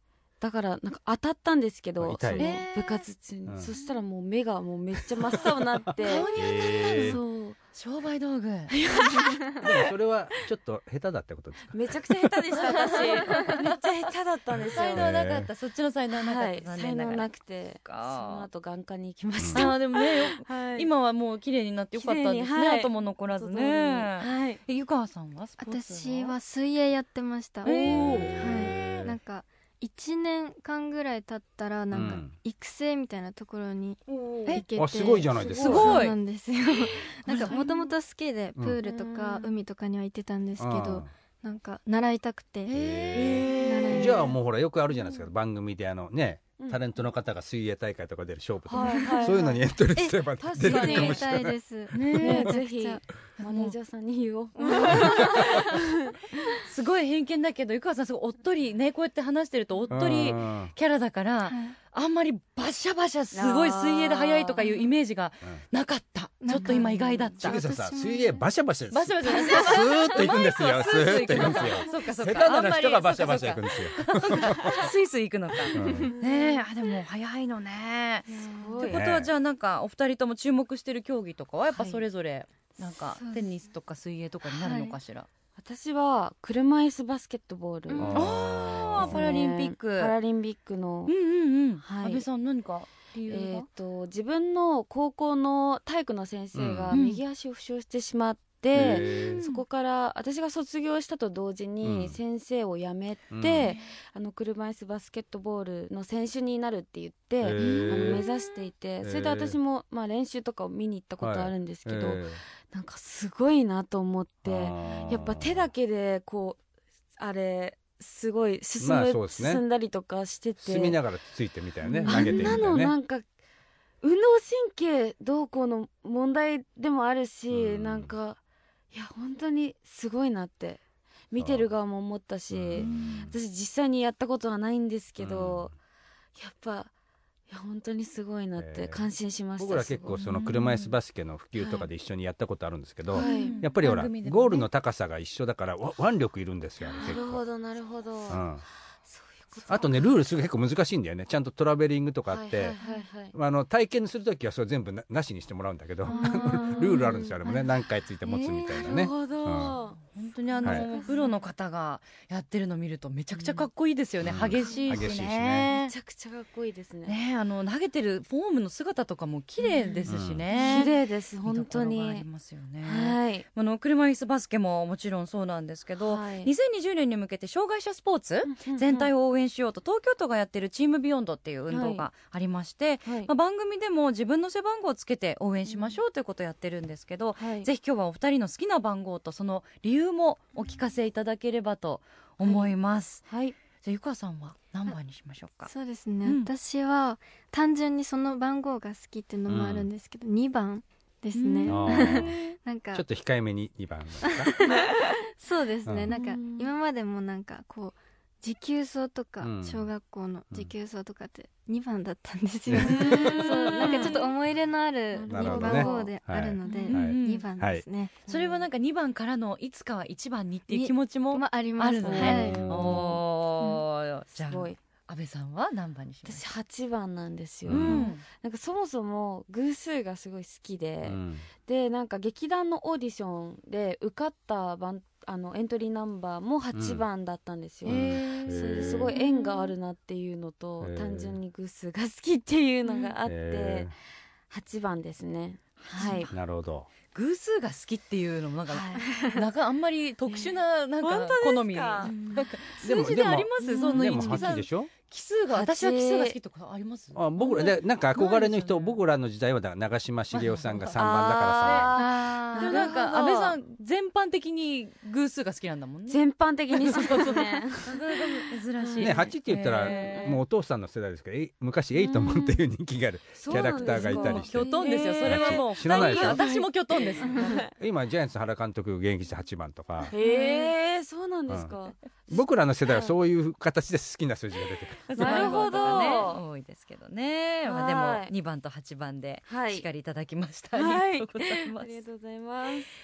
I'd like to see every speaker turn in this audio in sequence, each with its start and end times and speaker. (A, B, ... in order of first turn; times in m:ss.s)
0:00.4-0:07.6 A
0:02.0-0:02.5 B
0:02.4-0:03.0 C
0:03.4-0:03.7 B
0:05.3-0:07.2 B
0:06.0-0:08.7 C
0:08.7-0:09.8 A
0:09.6-0:11.8 B
0:11.7-0:15.1 A
0:12.6-0:13.7 C
0:14.5-0:15.5 B
0:14.7-0:18.5 C
0:16.1-0:20.9 A
0:19.4-0:19.7 B
0:19.5-0:26.4 C
0:22.0-0:24.6 A
0:25.6-0:42.7 D
0:27.6-0:29.1 C
0:27.8-0:29.1 B
0:31.9-0:32.3 B
0:34.1-0:34.6 A
0:34.8-0:36.1 B
0:35.5-0:36.2 C
0:35.6-0:35.8 A
0:37.2-0:37.7 C
0:38.8-0:39.5 A
0:40.6-0:41.1 B
0:42.6-0:44.2 C
0:42.7-0:52.1 B
0:43.2-0:44.2 A
0:43.6-0:44.3 D
0:46.6-0:46.8 A
0:48.7-0:49.6 A
0:50.0-0:53.0 D
0:50.4-0:51.3 A
0:51.9-0:52.6 C
0:52.2-0:56.4 A
0:53.4-0:53.7 C
0:54.6-0:55.3 D
0:54.9-0:55.4 C
0:56.6-1:07.6 C
0:59.9-1:00.7 B
1:01.5-1:01.7 D
1:03.3-1:04.7 A
1:06.4-1:08.4 D
1:06.6-1:07.0 A
1:07.4-1:14.9 B
1:08.9-1:25.3 C
1:09.3-1:10.1 D
1:11.4-1:11.7 A
1:14.5-1:14.8 A
1:15.7-1:16.1 B
1:15.7-1:16.2 D
1:16.1-1:16.4 A
1:18.3-1:19.0 A
1:18.8-1:19.3 B
1:21.7-1:22.0 A
1:23.1-1:23.5 D
1:24.4-1:25.0 D
1:25.6-1:28.4 A
1:27.9-1:28.2 D
1:28.0-1:29.2 B
1:28.1-1:30.1 C
1:28.9-1:31.1 A
1:31.1-1:33.6 C
1:31.8-1:32.2 A
1:33.3-1:56.6 A
1:36.5-1:37.0 B
1:36.9-1:37.2 C
1:38.7-1:39.4 B
1:39.2-1:39.6 C
1:41.8-1:42.2 B
1:43.3-1:43.7 B
1:47.4-1:48.2 B
1:47.6-1:48.2 C
1:49.0-1:49.6 B
1:51.2-1:52.4 B
1:54.4-1:55.7 B
1:57.2-2:01.0 A
1:58.8-1:59.6 B
2:00.6-2:02.9 B
2:02.0-2:03.2 A
2:02.0-2:02.6 C
2:04.0-2:08.4 A
2:07.5-2:08.1 B
2:08.9-2:10.8 A
2:11.3-2:15.7 A
2:11.4-2:11.7 B
2:12.5-2:13.4 B
2:12.8-2:13.2 C
2:15.2-2:15.7 B
2:16.4-2:16.9 A
2:17.5-2:20.2 A
2:18.6-2:19.0 B
2:19.6-2:27.4 B
2:20.2-2:21.0 C
2:21.6-2:21.9 A
2:23.1-2:23.6 A
2:23.1-2:24.7 C
2:26.9-2:28.4 A
2:28.3-2:28.6 B
2:29.0-2:30.2 A
2:29.7-2:32.7 B
2:32.3-2:33.3 A
2:33.3-2:39.8 B
2:36.0-2:37.6 D
2:36.1-2:37.6 A
2:38.2-2:38.9 D
2:38.6-2:41.4 A
2:39.5-2:45.9 C
2:43.3-2:43.7 A
2:44.2-2:45.7 B
2:44.6-2:47.2 A
2:47.0-3:13.3 C
2:49.6-2:52.2 A
2:50.1-2:50.4 B
2:50.5-2:50.8 D
2:52.8-2:53.4 A
2:56.0-2:56.5 A
2:58.4-2:59.1 A
3:01.7-3:02.0 A
3:03.0-3:03.3 A
3:05.7-3:06.0 A
3:07.4-3:07.7 A
3:12.4-3:12.7 A
3:13.3-3:13.6 A
3:13.8-3:15.7 C
3:15.7-3:23.0 D
3:16.2-3:16.5 C
3:19.5-3:19.9 B
3:21.3-3:22.2 C
3:21.6-3:22.3 B
3:22.1-3:22.5 A
3:22.9-3:24.5 B
3:24.3-3:38.2 D
3:25.8-3:26.1 B
3:26.1-3:26.7 A
3:29.4-3:29.9 B
3:32.7-3:33.2 B
3:32.9-3:34.2 A
3:32.9-3:34.3 C
3:35.1-3:36.1 A
3:35.3-3:37.8 B
3:36.7-3:37.5 C
3:38.2-3:46.4 C
3:38.3-3:38.6 A
3:40.7-3:43.0 D
3:42.0-3:43.0 A
3:42.1-3:43.1 B
3:44.3-3:44.8 A
3:46.2-4:03.9 A
3:47.6-3:48.0 B
3:47.7-3:48.2 C
3:51.0-3:51.4 B
3:56.7-3:57.0 B
3:57.8-3:59.2 B
3:57.8-3:59.7 C
4:00.8-4:01.4 B
4:02.8-4:03.1 C
4:03.2-4:03.9 B
4:04.5-4:06.3 A
4:05.9-4:06.3 C
4:06.3-4:06.9 B
4:07.1-4:19.0 C
4:08.7-4:09.0 A
4:09.0-4:09.4 D
4:10.3-4:12.1 A
4:12.8-4:14.9 B
4:13.6-4:14.5 A
4:15.5-4:16.4 A
4:17.1-4:21.9 B
4:20.3-4:21.0 C
4:20.9-4:23.6 A
4:21.6-4:30.4 C
4:22.0-4:22.9 D
4:26.1-4:29.2 A
4:29.0-4:34.7 B
4:29.8-4:30.4 A
4:31.9-4:32.6 A
4:33.4-4:37.7 A
4:33.5-4:37.6 C
4:35.2-4:36.4 B
4:37.7-4:40.1 B
4:40.1-4:43.1 A
4:40.1-4:40.7 C
4:41.5-4:41.7 B
4:42.3-4:45.7 B
4:45.1-4:46.4 A
4:45.1-4:52.0 C
4:47.6-4:48.3 A
4:49.5-4:49.8 A
4:50.7-4:52.9 A